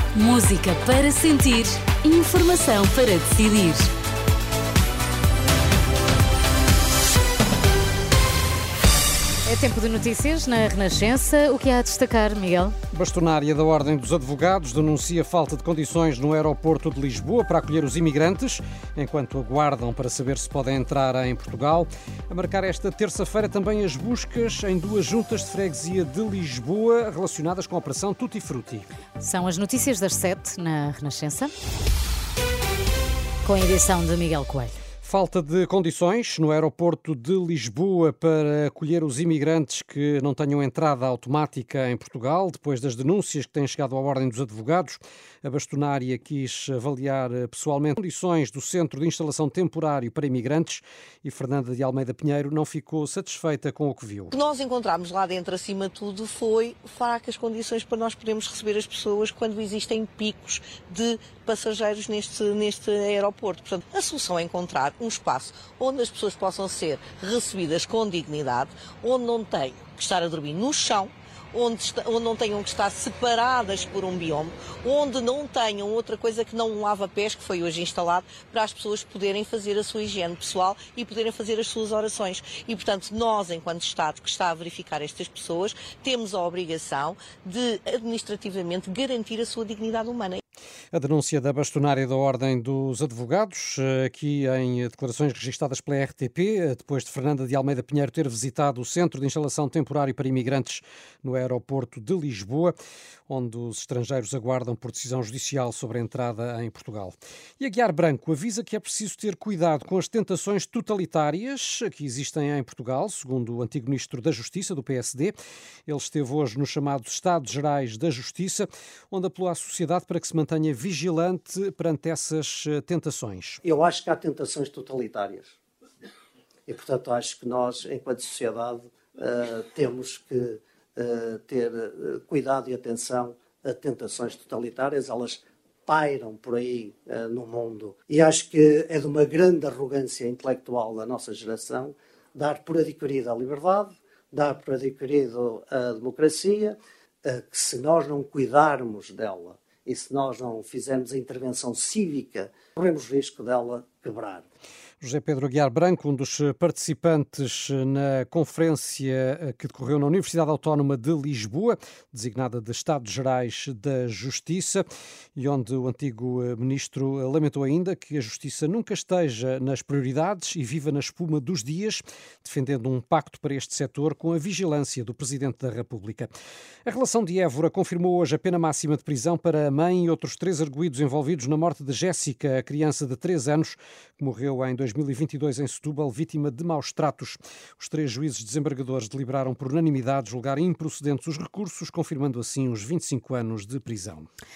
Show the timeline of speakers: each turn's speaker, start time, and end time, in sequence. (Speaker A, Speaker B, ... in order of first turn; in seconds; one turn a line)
Speaker A: 0.2-3.9
Speaker A: 9.5-12.7
Speaker B: 12.9-28.9
Speaker A: 29.3-31.5
Speaker A: 33.5-34.7
Speaker B: 35.0-54.3
Speaker C: 54.3-90.4
Speaker B: 90.9-102.8
Speaker B: 103.3-115.3
Speaker B: 115.9-123.6
Speaker D: 123.6-125.6
Speaker D: 126.7-146.7
Speaker D: 147.3-154.4
Speaker B: 155.0-164.8
Speaker B: 165.4-176.3
Speaker B: 176.8-194.3